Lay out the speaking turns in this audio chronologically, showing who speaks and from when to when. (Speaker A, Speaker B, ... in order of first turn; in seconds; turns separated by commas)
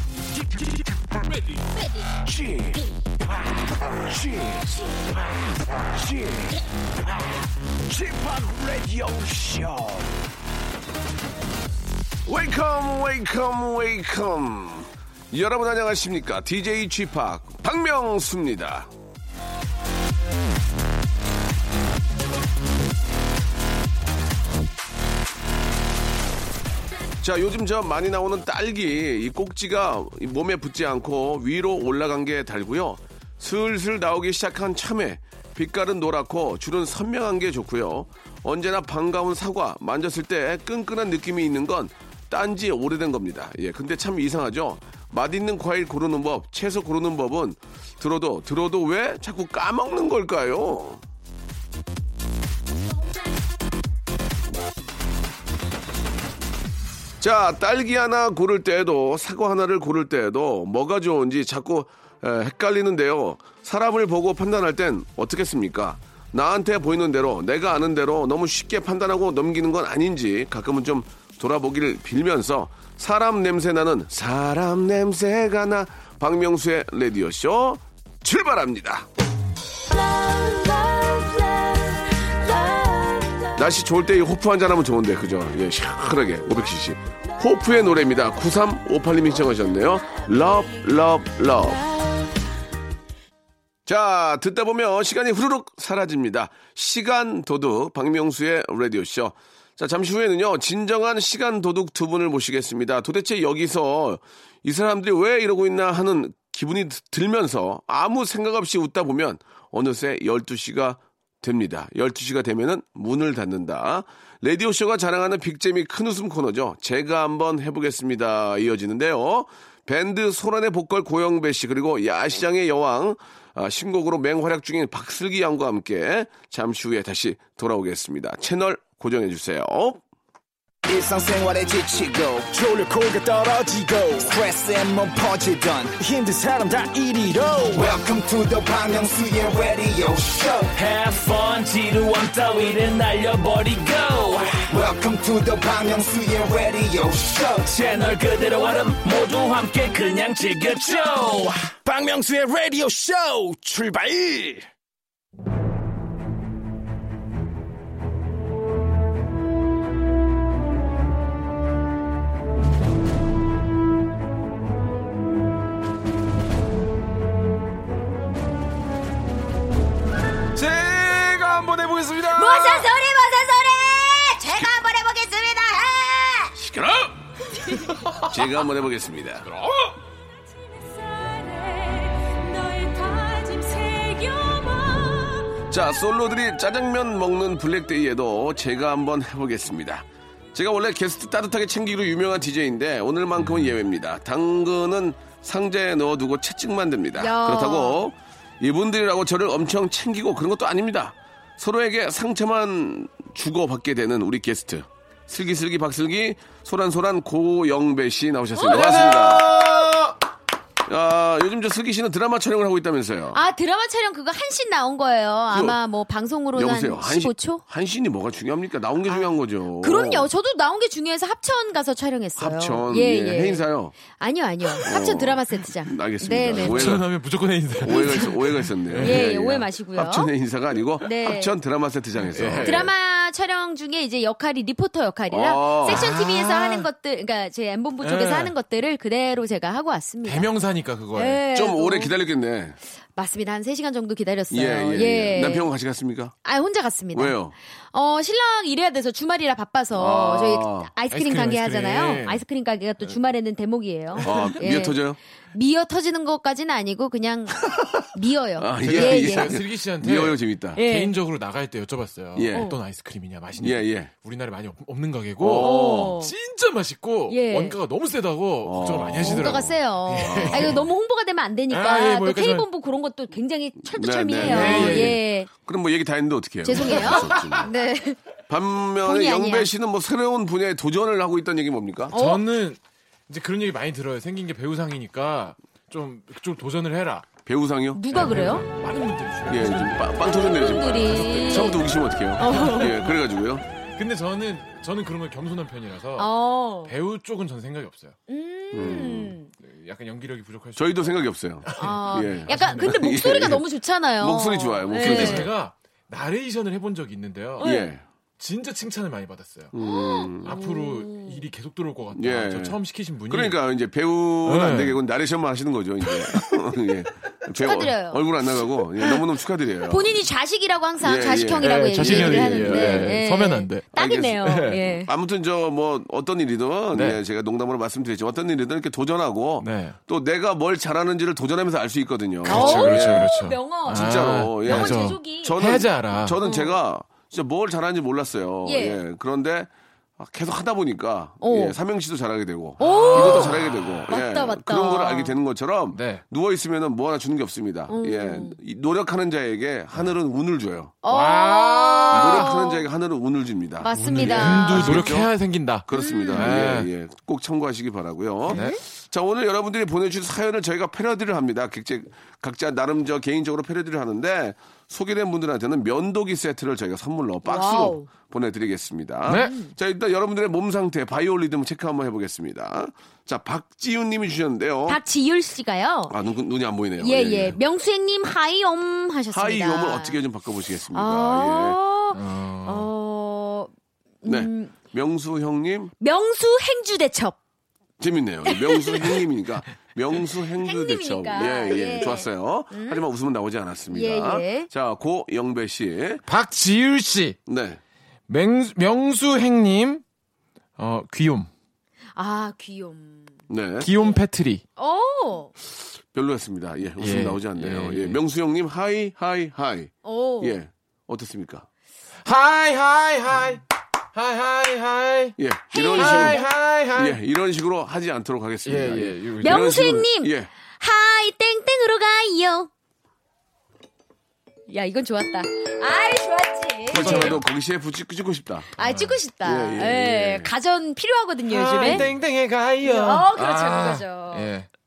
Speaker A: 2.1-2.8, Speaker A: 4.1-4.9, Speaker A: 5.9-6.5, Speaker A: 7.9-10.2, Speaker A: 12.2-18.9, Speaker A: 27.2-51.0, Speaker A: 57.2-79.1, Speaker B: 79.9-83.6, Speaker A: 83.5-91.8, Speaker B: 91.9-92.2, Speaker A: 93.8-130.0, Speaker C: 130.9-140.7, Speaker D: 136.2-137.7, Speaker E: 140.7-144.7, Speaker C: 144.7-147.7, Speaker E: 147.6-151.7, Speaker D: 151.8-154.7, Speaker F: 170.5-172.9, Speaker B: 172.3-176.5, Speaker A: 176.5-177.2, Speaker B: 177.7-178.0, Speaker F: 177.8-178.3, Speaker A: 178.2-179.5, Speaker F: 179.5-179.9, Speaker B: 180.5-185.6, Speaker A: 185.7-209.6, Speaker F: 193.4-193.7, Speaker B: 197.2-198.0, Speaker F: 208.6-210.1, Speaker A: 210.8-213.4, Speaker B: 213.3-217.6, Speaker A: 215.5-215.8, Speaker A: 216.5-220.3, Speaker B: 219.8-227.0, Speaker A: 222.4-223.9, Speaker A: 224.8-227.1, Speaker F: 226.5-229.2, Speaker A: 227.8-232.9, Speaker B: 227.8-228.3, Speaker B: 229.0-230.3, Speaker B: 231.0-231.5, Speaker F: 232.3-232.9, Speaker B: 232.6-240.5, Speaker A: 235.3-236.1, Speaker F: 235.8-236.9, Speaker F: 238.0-238.5, Speaker F: 240.2-241.4, Speaker B: 241.2-242.1, Speaker A: 241.5-242.8, Speaker B: 243.1-245.7, Speaker A: 244.5-246.3, Speaker B: 246.4-247.4, Speaker A: 247.1-247.5, Speaker B: 247.9-255.0, Speaker A: 249.9-250.9, Speaker F: 251.1-252.4, Speaker A: 254.2-255.2, Speaker B: 255.5-259.5, Speaker A: 257.6-258.0, Speaker A: 258.6-260.8, Speaker F: 258.8-270.8, Speaker B: 260.8-261.1, Speaker A: 262.3-262.7, Speaker A: 263.6-264.1, Speaker A: 265.4-266.1, Speaker B: 265.6-266.3, Speaker B: 267.3-267.8, Speaker A: 268.6-270.8, Speaker B: 269.2-275.5, Speaker F: 271.7-272.7, Speaker A: 273.9-277.7, Speaker F: 274.4-275.2, Speaker B: 276.6-278.2, Speaker F: 276.7-277.6, Speaker A: 278.5-282.1, Speaker B: 279.0-279.7, Speaker B: 282.1-282.4, Speaker F: 282.1-287.3, Speaker A: 287.4-288.0, Speaker B: 287.9-288.6, Speaker F: 288.1-293.1, Speaker A: 289.5-293.6, Speaker B: 290.2-291.8, Speaker B: 292.4-293.0, Speaker F: 293.9-296.3, Speaker B: 296.2-296.9, Speaker F: 296.8-298.2, Speaker B: 298.3-299.5, Speaker A: 298.7-299.4, Speaker F: 299.6-303.0, Speaker A: 300.8-303.6, Speaker B: 301.8-305.5, Speaker A: 304.2-305.5, Speaker F: 305.0-307.8, Speaker B: 307.6-307.9, Speaker A: 307.6-308.0, Speaker F: 308.4-309.7, Speaker A: 309.7-310.6, Speaker B: 309.8-311.4, Speaker F: 310.4-313.6, Speaker A: 312.1-312.8, Speaker A: 313.3-320.2, Speaker F: 314.4-315.0, Speaker B: 317.6-318.2, Speaker B: 319.9-325.1, Speaker A: 321.0-323.2, Speaker F: 321.6-323.8, Speaker A: 323.9-333.3, Speaker F: 324.4-324.8, Speaker F: 326.9-327.2, Speaker F: 329.6-330.0, Speaker F: 332.4-336.4, Speaker B: 332.5-335.6, Speaker A: 333.9-350.9, Speaker B: 336.4-336.8, Speaker B: 338.6-339.0, Speaker B: 341.4-341.8, Speaker F: 342.8-344.1, Speaker B: 342.8-345.3, Speaker F: 345.9-346.2, Speaker B: 347.9-348.6, Speaker B: 351.0-352.8, Speaker F: 351.1-352.5, Speaker A: 352.1-355.3, Speaker B: 353.8-355.2, Speaker F: 353.9-356.9, Speaker A: 355.8-375.0, Speaker B: 355.9-356.6, Speaker B: 358.5-358.8, Speaker B: 367.4-368.1, Speaker F: 369.3-369.5, Speaker B: 369.3-369.7, Speaker B: 374.9-376.1, Speaker A: 376.1-377.6, Speaker B: 377.0-380.2, Speaker A: 379.3-381.8, Speaker B: 380.9-383.7, Speaker F: 382.1-382.9, Speaker B: 384.2-384.8, Speaker A: 384.2-385.9, Speaker B: 386.0-387.4, Speaker A: 388.0-396.2, Speaker B: 388.4-389.2, Speaker B: 390.6-393.0, Speaker B: 393.9-394.7, Speaker F: 396.3-397.4, Speaker A: 397.4-397.8, Speaker F: 398.3-400.0, Speaker F: 400.8-401.5, Speaker B: 402.1-403.4, Speaker A: 403.5-403.9, Speaker F: 403.8-404.6, Speaker B: 404.8-405.5, Speaker A: 406.1-411.6, Speaker F: 407.0-408.2, Speaker B: 410.0-410.6, Speaker F: 412.2-413.6, Speaker F: 414.1-415.4, Speaker A: 415.4-416.4, Speaker B: 415.7-416.4, Speaker F: 415.9-417.2, Speaker A: 416.9-420.5, Speaker F: 418.6-419.6, Speaker B: 419.4-422.7, Speaker B: 424.7-427.4, Speaker A: 426.9-428.7, Speaker F: 426.9-427.4, Speaker B: 428.8-432.1, Speaker F: 428.8-429.1, Speaker A: 429.4-430.5, Speaker F: 431.5-434.7, Speaker B: 432.8-434.5